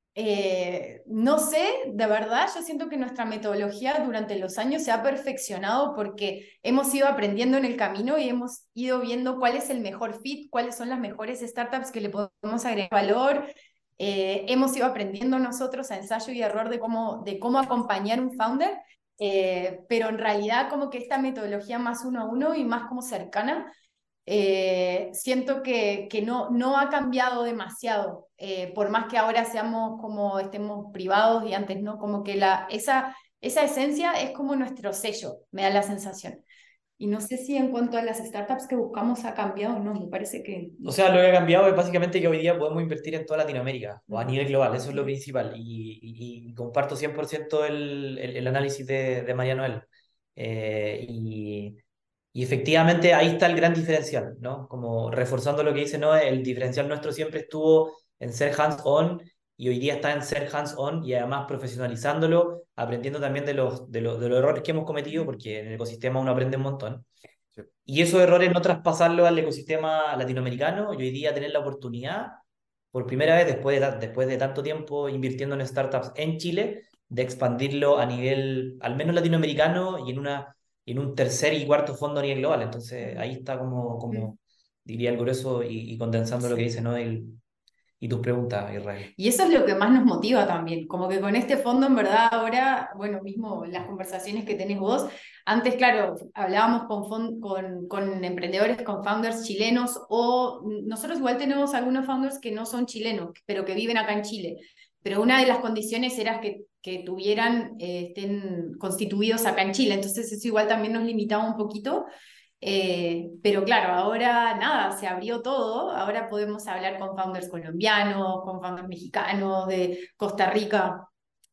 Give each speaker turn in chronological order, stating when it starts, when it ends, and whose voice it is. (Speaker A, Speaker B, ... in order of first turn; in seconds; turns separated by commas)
Speaker A: 0.1-23.7, Speaker A: 24.2-36.4, Speaker A: 37.0-40.9, Speaker B: 40.8-51.8, Speaker A: 44.1-44.3, Speaker B: 52.3-67.1, Speaker B: 67.8-72.4, Speaker B: 72.9-87.4, Speaker A: 83.0-83.3, Speaker B: 88.0-89.1, Speaker A: 89.2-112.1, Speaker A: 112.6-121.1